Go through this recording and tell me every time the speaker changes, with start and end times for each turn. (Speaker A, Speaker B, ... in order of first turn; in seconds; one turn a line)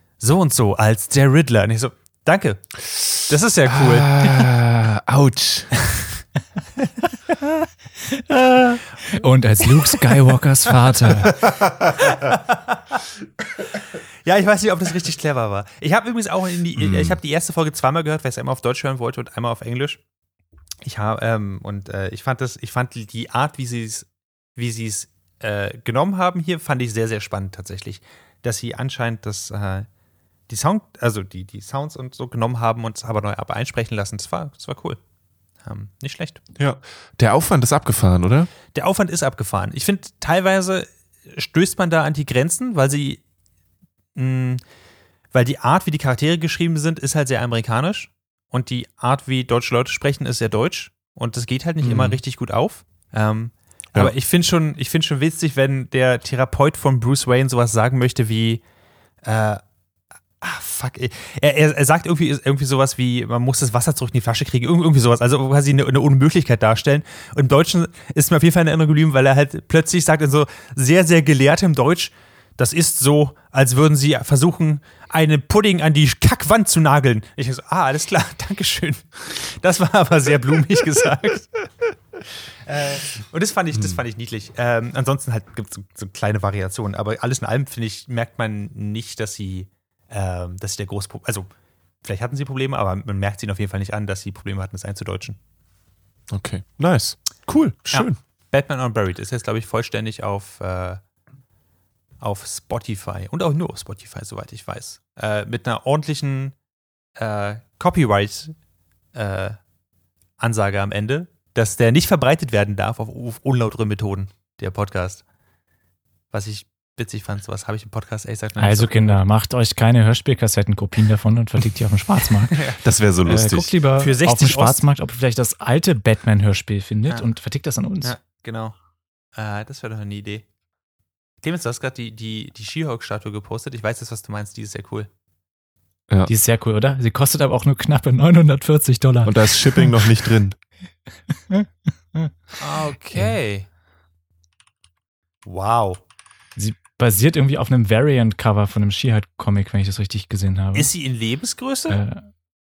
Speaker A: 0.2-4.2
Speaker B: 3.7-5.7
Speaker A: 5.8-6.2
Speaker C: 8.0-11.4
Speaker B: 11.4-12.0
Speaker A: 12.0-13.0
Speaker A: 14.2-20.0
Speaker B: 16.8-17.1
Speaker A: 20.8-29.9
Speaker A: 30.5-35.0
Speaker A: 35.6-36.4
Speaker B: 36.6-38.5
Speaker A: 38.7-43.2
Speaker A: 44.1-44.6
Speaker A: 45.3-58.6
Speaker B: 51.8-52.2
Speaker A: 59.2-59.6
Speaker A: 60.4-81.7
Speaker A: 82.6-91.5
Speaker A: 92.0-95.4
Speaker B: 96.3-98.2
Speaker A: 97.9-101.0
Speaker A: 102.2-106.5
Speaker A: 107.2-108.5
Speaker A: 109.1-109.6
Speaker A: 110.4-115.2
Speaker A: 116.3-119.2
Speaker C: 118.6-122.6
Speaker A: 122.5-122.8
Speaker B: 122.8-123.7
Speaker C: 123.2-128.1
Speaker A: 124.0-124.8
Speaker A: 128.0-128.7
Speaker A: 129.3-130.4
Speaker A: 131.4-135.1
Speaker C: 136.2-139.9
Speaker B: 139.2-140.6
Speaker C: 141.5-142.3
Speaker A: 142.6-143.7
Speaker A: 145.4-146.0
Speaker C: 146.6-150.9
Speaker A: 150.7-152.0
Speaker C: 151.9-152.2